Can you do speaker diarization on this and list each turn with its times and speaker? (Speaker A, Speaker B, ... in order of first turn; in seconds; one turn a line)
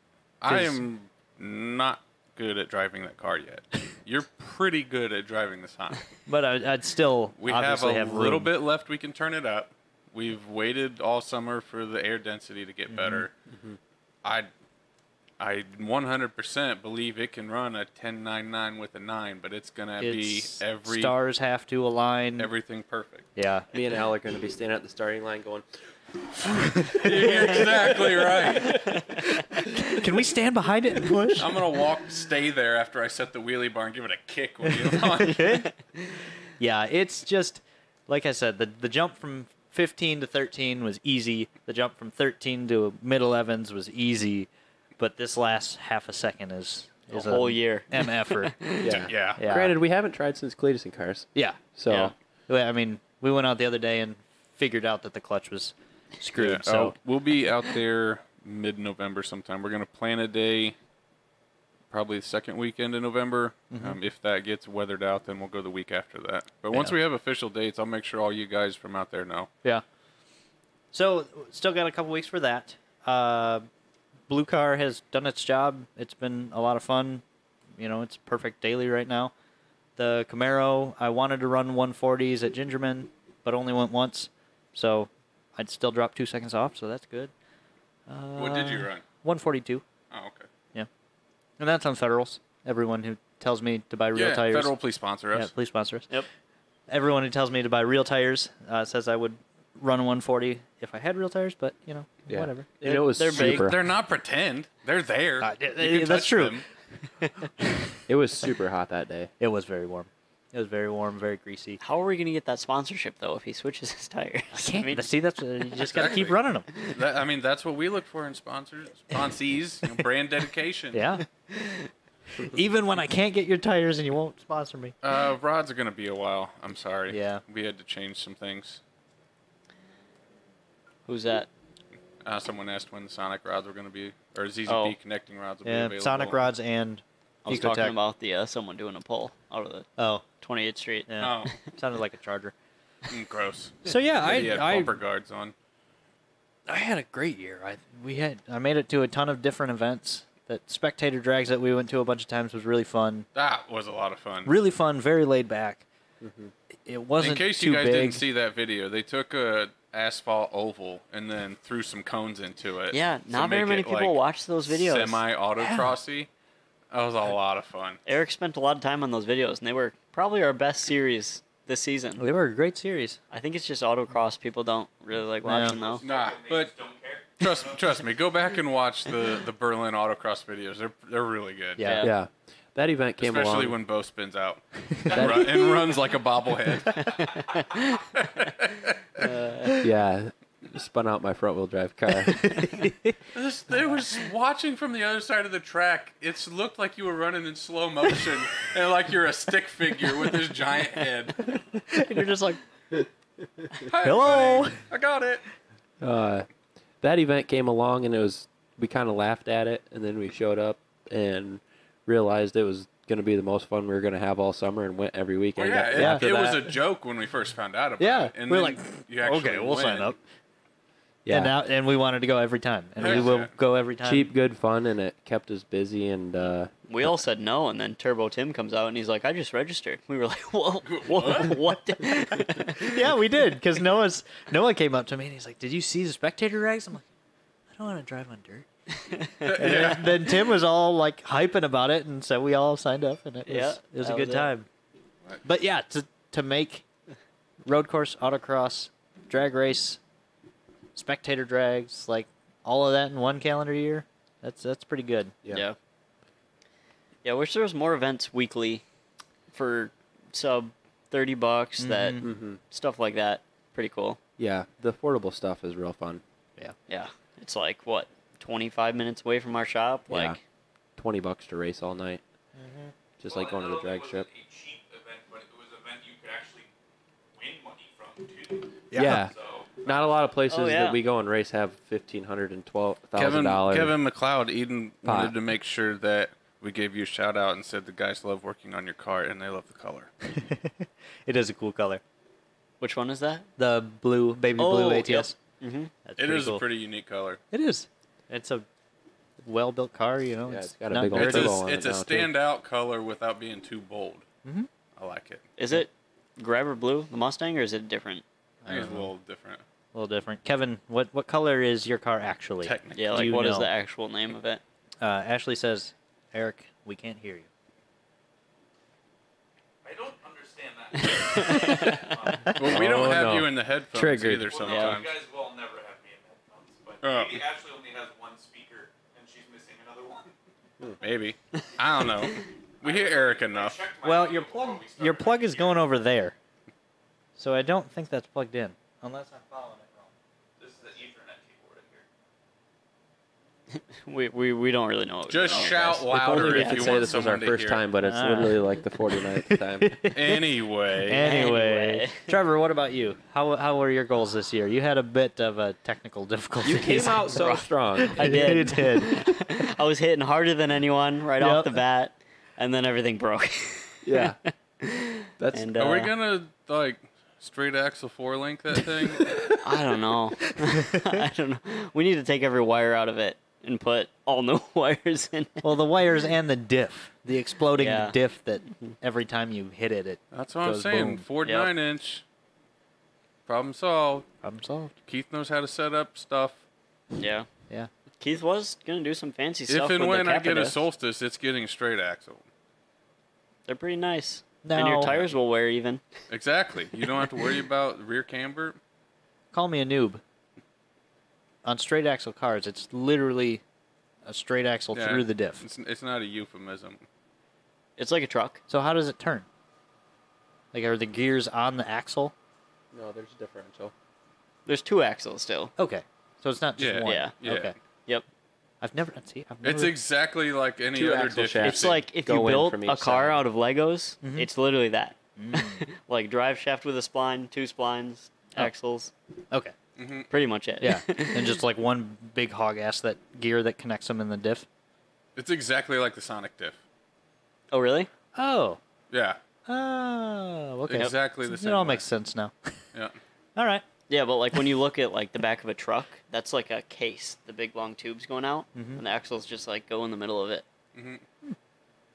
Speaker A: 0.4-6.0
Speaker B: 0.5-0.8
Speaker B: 6.3-8.5
Speaker A: 7.4-13.3
Speaker B: 12.9-13.2
Speaker C: 13.5-13.8
Speaker A: 14.2-14.5
Speaker A: 15.4-21.1
Speaker B: 20.0-22.5
Speaker A: 22.4-23.3
Speaker B: 23.3-23.6
Speaker C: 23.7-25.6
Speaker C: 26.4-28.8
Speaker A: 26.9-29.0
Speaker B: 29.8-31.5
Speaker A: 31.4-35.7
Speaker B: 34.7-35.7
Speaker B: 36.6-48.5
Speaker D: 47.1-48.9
Speaker C: 48.8-52.1
Speaker A: 48.8-49.4
Speaker B: 49.4-49.7
Speaker B: 51.3-51.6
Speaker B: 52.5-56.9
Speaker A: 56.4-60.8
Speaker A: 61.9-69.5
Speaker B: 63.7-64.0
Speaker B: 70.9-73.7
Speaker B: 74.3-77.2
Speaker B: 77.8-79.3
Speaker B: 80.0-87.3
Speaker B: 88.1-89.8
Speaker A: 88.3-89.0
Speaker A: 90.1-90.5
Speaker B: 91.6-94.7
Speaker A: 94.1-95.5
Speaker B: 95.3-96.1
Speaker B: 96.9-103.1
Speaker C: 102.3-103.8
Speaker D: 102.9-103.7
Speaker A: 103.3-106.6
Speaker B: 105.4-106.6
Speaker C: 108.1-109.3
Speaker B: 109.4-111.8
Speaker D: 111.8-115.0
Speaker B: 114.5-116.7
Speaker A: 115.8-121.0
Speaker B: 120.9-121.2
Speaker B: 122.4-124.9
Speaker A: 125.0-128.8
Speaker B: 127.1-127.4
Speaker D: 131.1-131.5
Speaker A: 132.2-136.4
Speaker D: 134.7-134.9
Speaker B: 135.6-137.9
Speaker D: 137.4-139.9
Speaker B: 140.0-140.2
Speaker D: 140.4-141.1
Speaker B: 141.1-142.5
Speaker A: 141.2-141.5
Speaker A: 143.1-145.5
Speaker B: 143.8-144.9
Speaker B: 146.7-153.2
Speaker A: 153.3-154.5
Speaker B: 154.4-155.8
Speaker C: 156.2-156.5
Speaker B: 156.8-158.2
Speaker A: 157.2-166.3
Speaker D: 162.9-165.2
Speaker B: 165.6-165.9
Speaker A: 166.9-168.0
Speaker D: 168.1-172.2
Speaker B: 172.2-173.2
Speaker D: 173.3-176.0
Speaker B: 175.4-175.8
Speaker E: 175.7-177.8
Speaker A: 176.0-176.7
Speaker A: 177.4-181.9
Speaker B: 181.8-182.1
Speaker D: 181.8-182.1
Speaker C: 182.0-183.8
Speaker A: 183.2-187.5
Speaker C: 185.1-185.6
Speaker A: 188.1-189.0
Speaker D: 189.2-189.8
Speaker C: 189.8-192.7
Speaker B: 192.3-193.2
Speaker A: 193.3-201.6
Speaker B: 201.7-202.6
Speaker A: 203.8-205.4
Speaker B: 204.0-204.8
Speaker C: 206.0-206.5
Speaker C: 207.0-216.7
Speaker A: 215.6-220.1
Speaker B: 215.9-216.2
Speaker B: 218.0-220.2
Speaker C: 221.2-221.5
Speaker B: 221.3-224.3
Speaker A: 223.0-223.5
Speaker C: 223.0-223.3
Speaker C: 224.0-226.7
Speaker D: 226.9-233.0
Speaker A: 230.8-231.6
Speaker B: 232.8-237.1
Speaker B: 237.7-238.7
Speaker D: 239.1-239.8
Speaker A: 239.4-240.2
Speaker B: 239.5-244.7
Speaker D: 243.4-244.5
Speaker B: 245.4-246.8
Speaker B: 247.6-250.0
Speaker B: 250.9-255.3
Speaker D: 255.5-255.8
Speaker D: 257.2-258.8
Speaker D: 259.5-264.2
Speaker B: 261.8-262.3
Speaker C: 262.2-262.6
Speaker C: 264.4-266.2
Speaker D: 266.9-270.4
Speaker C: 270.1-270.4
Speaker C: 271.0-272.2
Speaker B: 272.6-272.9
Speaker C: 273.2-274.3
Speaker E: 273.2-276.7
Speaker E: 277.3-280.1
Speaker B: 278.9-279.2
Speaker C: 278.9-283.9
Speaker D: 280.5-281.0
Speaker A: 283.1-290.1
Speaker C: 285.0-285.3
Speaker B: 290.3-292.0
Speaker D: 292.8-293.5
Speaker B: 293.6-295.3
Speaker D: 294.6-295.9
Speaker B: 296.0-296.6
Speaker A: 296.2-297.4
Speaker B: 297.5-298.6
Speaker B: 299.4-301.5
Speaker C: 300.5-302.3
Speaker A: 301.1-304.2
Speaker A: 305.0-305.4
Speaker D: 305.6-308.2
Speaker B: 308.6-309.1
Speaker A: 308.7-309.6
Speaker B: 309.9-313.7
Speaker A: 312.6-313.5
Speaker D: 312.9-314.6
Speaker B: 315.0-317.5
Speaker E: 319.8-323.1
Speaker D: 321.1-322.1
Speaker A: 322.5-325.1
Speaker C: 322.6-324.6
Speaker E: 324.5-330.3
Speaker D: 324.7-325.0
Speaker A: 327.0-327.4
Speaker A: 331.0-333.8
Speaker E: 332.8-335.9
Speaker B: 334.0-336.3
Speaker B: 337.4-340.1
Speaker E: 340.6-342.0
Speaker D: 344.0-347.1
Speaker A: 345.3-347.8
Speaker C: 346.1-350.0
Speaker B: 348.0-348.6
Speaker B: 349.4-350.4
Speaker A: 350.1-351.3
Speaker B: 351.0-357.2
Speaker D: 351.1-352.3
Speaker C: 356.6-358.6
Speaker D: 356.9-366.1
Speaker B: 358.1-359.3
Speaker B: 361.4-361.8
Speaker C: 364.0-364.4
Speaker C: 365.4-365.7
Speaker A: 365.8-369.4
Speaker D: 369.6-375.6
Speaker B: 375.6-381.2
Speaker D: 377.8-378.1
Speaker A: 380.3-382.2
Speaker D: 381.4-381.7
Speaker A: 383.5-384.2
Speaker B: 384.4-384.9
Speaker A: 385.1-386.6
Speaker D: 387.1-387.5
Speaker D: 388.2-390.8
Speaker A: 389.7-392.4
Speaker D: 393.7-396.0
Speaker B: 394.6-395.2
Speaker A: 396.3-398.8
Speaker B: 399.5-400.2
Speaker B: 401.6-403.6
Speaker B: 404.2-405.6
Speaker A: 404.9-407.0
Speaker D: 408.0-408.6
Speaker B: 408.7-409.4
Speaker B: 410.7-412.3
Speaker C: 412.9-413.9
Speaker D: 414.6-415.7
Speaker B: 415.8-417.7
Speaker A: 416.8-417.7
Speaker D: 417.0-417.3
Speaker B: 418.8-419.9
Speaker A: 419.6-422.0
Speaker C: 420.9-423.4
Speaker D: 421.6-429.1
Speaker B: 424.2-424.5
Speaker B: 425.4-425.8
Speaker A: 430.0-430.3
Speaker D: 430.3-431.6
Speaker B: 430.8-434.6
Speaker A: 435.4-436.8
Speaker D: 437.7-438.1
Speaker B: 438.3-438.8
Speaker A: 439.1-439.4
Speaker B: 439.7-442.7
Speaker A: 440.9-442.0
Speaker B: 443.6-443.8
Speaker D: 444.1-450.6
Speaker B: 448.7-449.0
Speaker A: 450.9-451.2